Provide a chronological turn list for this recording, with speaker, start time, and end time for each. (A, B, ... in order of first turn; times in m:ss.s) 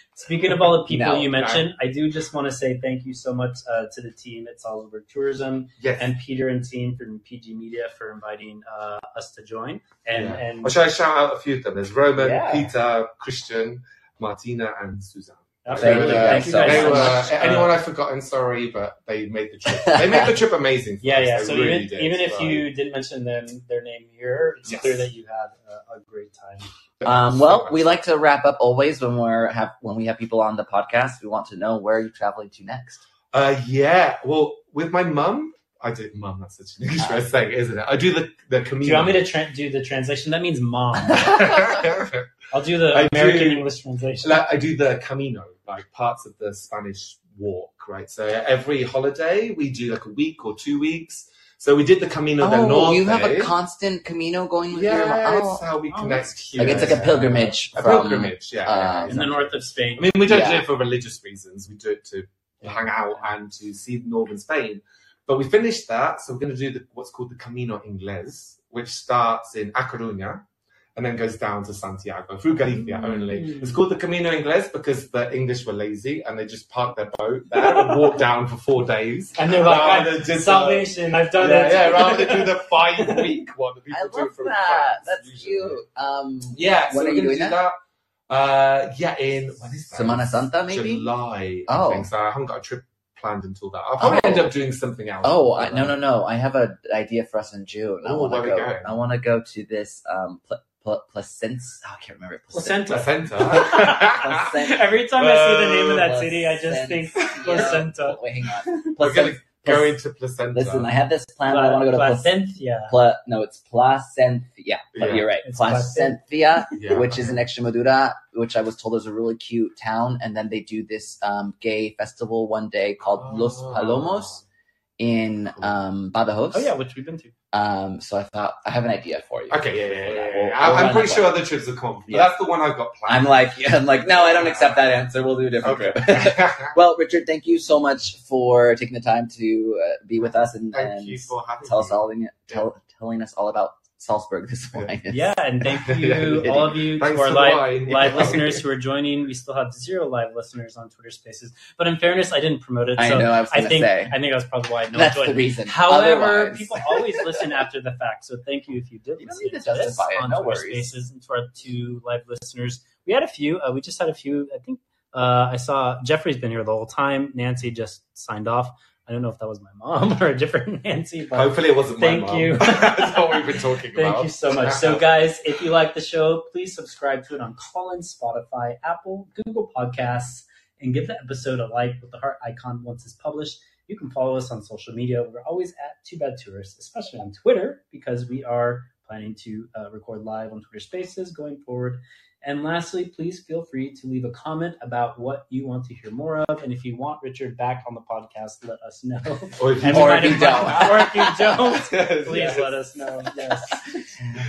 0:00.2-0:10.8 A
0:00.9-0:01.3 B
0:01.4-0:01.7 C
0:05.8-0:06.1 C
0:10.1-0:22.7 C
0:12.2-0:12.7 B
0:15.6-0:17.8 A
0:15.8-0:17.4 B
0:19.8-0:20.3 B
0:21.0-0:26.7 A
0:24.7-0:25.1 C
0:27.0-0:28.0 C
0:27.0-0:33.0 B
0:33.3-0:39.3 C
0:37.0-0:37.2 B
0:38.8-0:41.6 A
0:41.1-0:42.3 C
0:42.5-0:44.4 A
0:42.9-0:43.7 C
0:44.2-0:53.5 C
0:52.4-0:55.6 B
0:54.7-1:10.4 C
0:55.9-0:57.0 A
0:56.6-0:59.2 B
0:59.1-1:00.2 A
1:00.3-1:00.7 B
1:02.6-1:03.3 A
1:11.0-1:25.8 C
1:13.0-1:13.8 A
1:19.4-1:23.3 A
1:23.9-1:27.6 B
1:26.5-1:27.8 C
1:28.3-1:36.0 C
1:29.9-1:31.1 B
1:31.7-1:32.1 B
1:34.0-1:34.6 B
1:35.2-1:45.0 B
1:38.0-1:38.9 C
1:42.5-1:48.9 A
1:42.9-1:44.6 C
1:45.2-1:46.1 C
1:45.9-1:50.0 B
1:47.2-1:47.7 C
1:49.0-1:50.9 C
1:50.5-2:04.4 B
1:51.5-1:53.0 A
1:54.9-1:55.3 C
1:55.4-1:56.2 A
1:56.8-1:57.4 C
2:03.1-2:04.4 C
2:05.0-2:06.7 B
2:06.5-2:07.3 A
2:07.5-2:11.4 B
2:09.5-2:14.9 C
2:12.1-2:12.4 B
2:13.1-2:25.4 B
2:15.6-2:16.8 C
2:20.7-2:22.7 C
2:25.1-3:24.0 A
2:25.8-2:28.6 C
2:26.2-2:26.7 B
2:33.0-2:34.2 B
2:34.9-2:37.5 B
2:39.2-2:40.9 B
2:51.3-2:55.2 C
3:19.6-3:20.7 C
3:19.8-3:21.8 B
3:21.9-3:22.8 C